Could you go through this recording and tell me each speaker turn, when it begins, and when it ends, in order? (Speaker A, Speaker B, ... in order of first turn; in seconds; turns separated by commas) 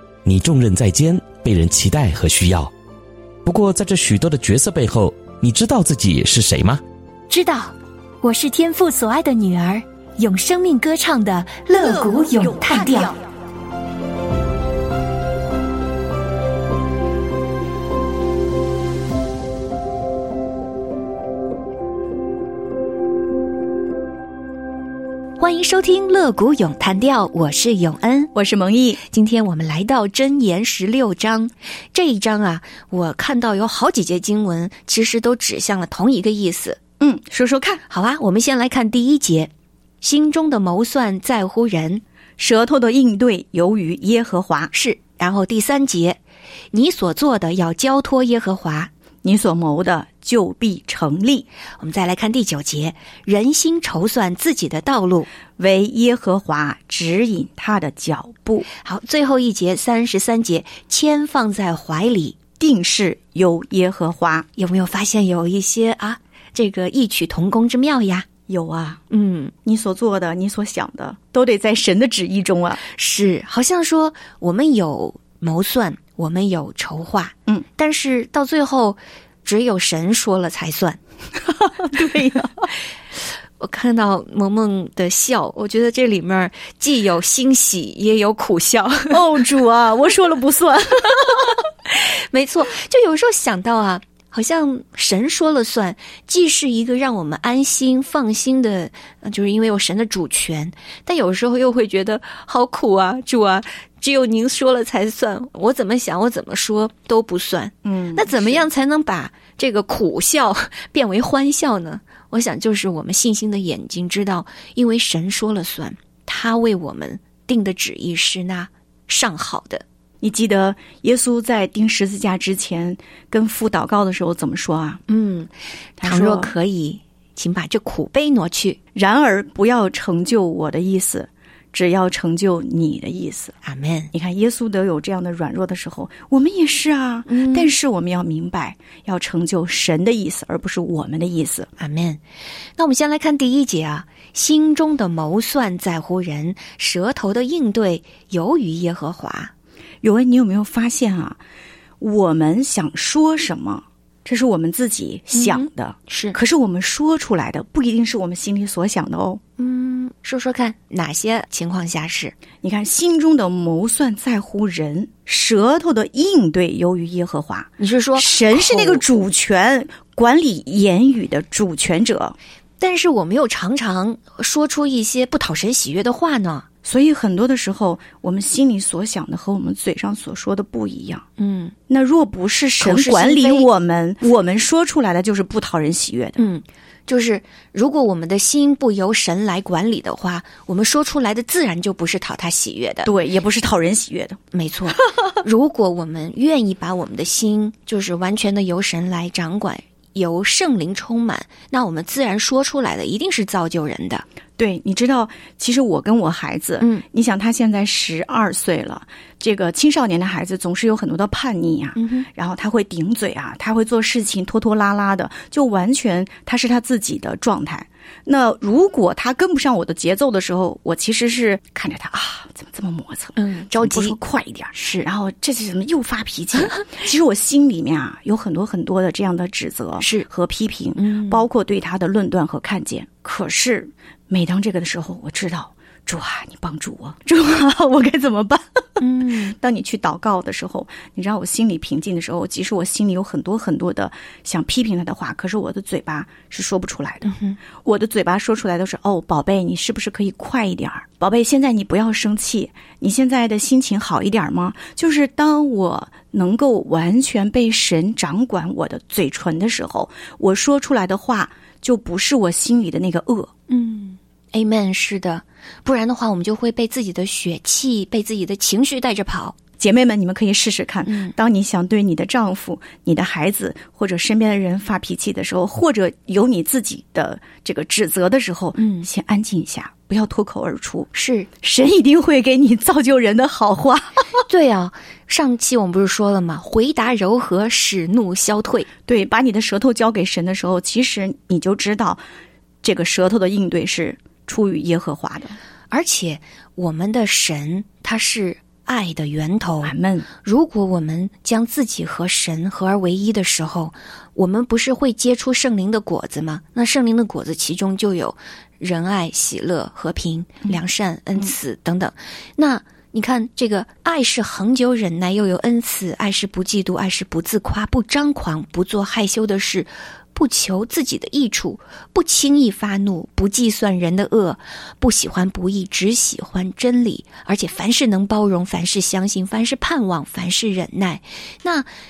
Speaker A: 0.2-2.7, Speaker A: 3.5-6.8, Speaker B: 7.3-13.2, Speaker C: 12.8-13.1, Speaker B: 25.4-28.3, Speaker C: 28.4-29.0, Speaker B: 29.0-36.8, Speaker C: 37.0-37.8, Speaker B: 37.9-42.0, Speaker C: 42.4-44.7, Speaker B: 44.7-46.2, Speaker B: 46.7-48.9, Speaker C: 49.2-51.5, Speaker B: 51.8-55.3, Speaker C: 55.6-58.7, Speaker B: 58.8-62.4, Speaker C: 62.6-64.5, Speaker B: 64.6-68.3, Speaker C: 68.5-69.0, Speaker B: 69.1-69.5, Speaker C: 69.7-72.8, Speaker B: 72.9-81.0, Speaker C: 81.6-82.7, Speaker B: 83.6-89.4, Speaker C: 89.1-91.4, Speaker B: 91.2-119.8, Speaker C: 107.8-108.7, Speaker C: 120.2-125.0, Speaker B: 125.1-128.8, Speaker C: 126.0-126.5, Speaker C: 128.9-133.5, Speaker B: 133.6-134.1, Speaker C: 134.1-141.7, Speaker B: 137.3-137.8, Speaker B: 141.8-142.2, Speaker B: 142.8-149.5, Speaker C: 150.0-151.4, Speaker C: 152.0-159.4, Speaker B: 155.3-156.4, Speaker B: 159.6-162.4, Speaker C: 162.6-172.4, Speaker B: 167.8-169.1, Speaker B: 172.8-176.7, Speaker C: 176.8-181.2, Speaker B: 181.4-181.8, Speaker C: 181.9-186.5, Speaker B: 182.8-183.7, Speaker B: 186.4-193.1, Speaker C: 193.1-194.4, Speaker B: 194.5-204.3, Speaker C: 204.6-263.5, Speaker B: 212.0-212.3, Speaker B: 223.4-224.2, Speaker B: 224.7-225.1, Speaker B: 230.0-230.3, Speaker B: 231.0-231.5, Speaker B: 239.0-239.6, Speaker B: 247.2-247.6, Speaker B: 263.7-269.6, Speaker C: 269.8-281.1, Speaker B: 271.1-271.4, Speaker B: 278.8-279.1, Speaker B: 281.1-281.5, Speaker C: 281.6-284.4, Speaker B: 284.5-288.9, Speaker C: 289.1-292.2, Speaker C: 292.8-295.6, Speaker B: 295.9-331.9, Speaker C: 299.8-300.3